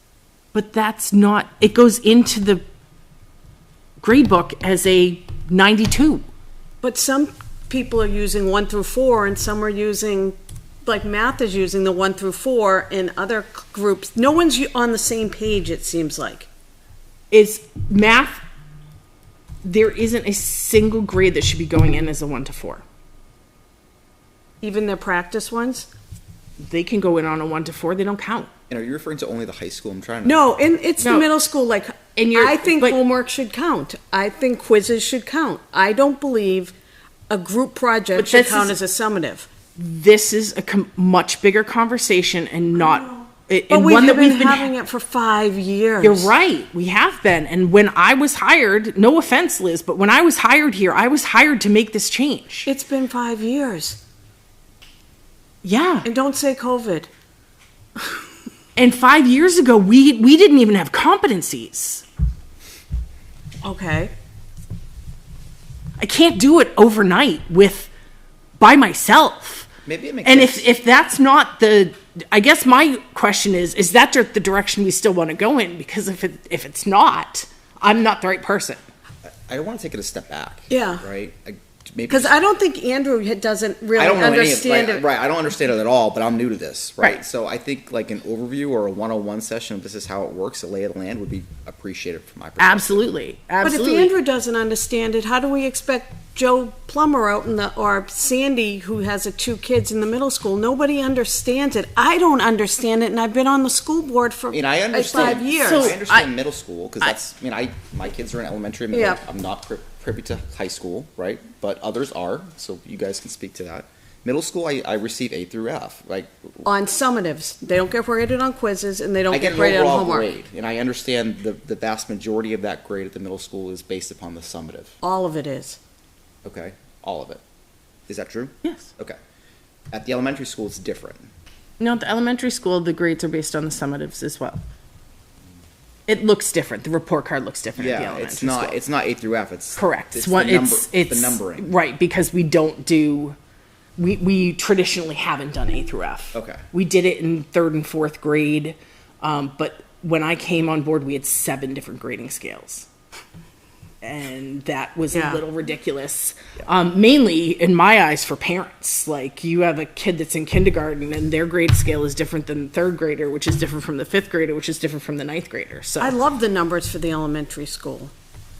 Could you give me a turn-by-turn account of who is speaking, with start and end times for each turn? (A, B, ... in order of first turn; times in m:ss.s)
0:00.5-0:02.6 A
0:04.0-0:06.2 A
0:06.8-0:16.5 B
0:17.3-0:18.4 A
0:19.6-0:22.8 A
0:24.6-0:25.9 B
0:26.6-0:28.5 A
0:28.7-0:30.4 C
0:30.2-0:36.7 B
0:31.0-0:31.3 A
0:32.2-0:33.0 A
0:37.3-0:39.5 B
0:38.2-0:38.8 A
0:39.8-0:44.7 A
0:43.7-0:46.3 B
0:46.0-0:52.7 A
0:52.6-0:54.0 B
0:55.6-0:56.1 A
0:56.0-0:57.1 B
0:58.8-1:02.0 A
1:03.6-1:04.1 B
1:06.0-1:07.9 A
1:08.6-1:09.7 A
1:09.8-1:10.7 C
1:10.2-1:18.8 A
1:19.5-1:22.3 C
1:20.7-1:21.0 B
1:22.1-1:25.0 B
1:24.0-1:33.1 C
1:32.6-1:34.1 A
1:33.6-1:46.0 B
1:44.5-1:56.6 C
1:45.1-1:46.3 A
1:48.9-1:49.2 B
1:56.6-2:00.3 B
1:59.3-2:04.9 C
2:05.0-2:05.8 B
2:06.4-2:07.4 C
2:08.1-2:09.2 C
2:08.6-2:08.9 A
2:09.9-2:11.3 C
2:11.8-2:14.6 A
2:16.1-2:18.8 A
2:17.8-2:21.7 C
2:19.7-2:23.4 A
2:24.0-2:32.9 A
2:26.3-2:26.6 C
2:34.0-2:46.2 A
2:35.1-2:35.4 B
2:46.0-2:48.1 B